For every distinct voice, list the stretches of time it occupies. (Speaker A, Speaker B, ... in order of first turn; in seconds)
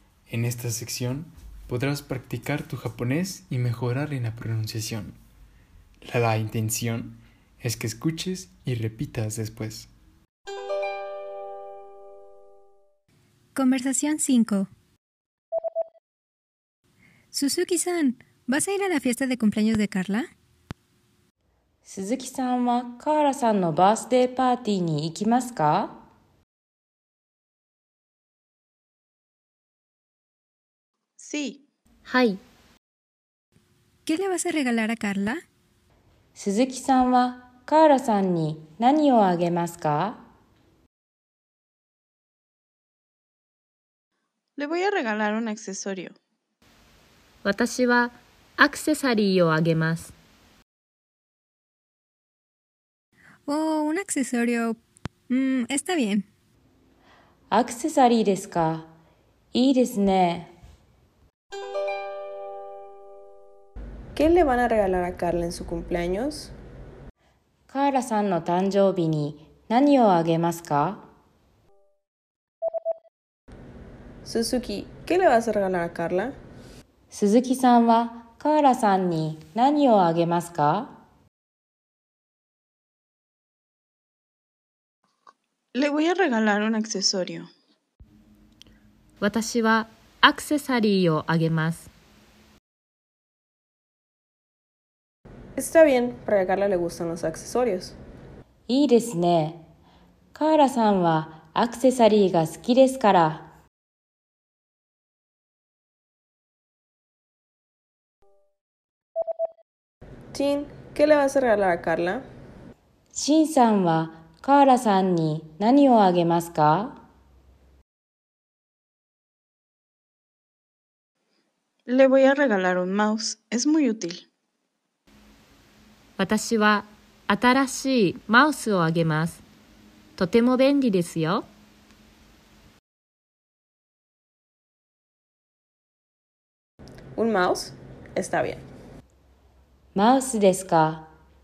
Speaker A: 0.3-5.2, 6.0-9.9
Speaker B: 13.5-14.7, 17.3-20.3, 34.0-35.4, 53.5-56.2
Speaker C: 21.9-26.0, 36.4-40.2, 57.5-58.9, 59.5-60.5, 67.7-71.0, 77.1-81.0, 98.7-99.7, 100.3-103.5, 113.1-117.0, 139.9-141.1
Speaker D: 31.2-31.6, 44.6-46.1, 85.9-87.5, 122.1-124.2
Speaker E: 32.0-32.4, 47.4-50.1, 89.2-91.9, 126.2-129.4, 130.2-131.5
Speaker F: 64.1-66.5, 74.2-76.3, 95.6-97.9, 110.3-112.2, 137.2-138.6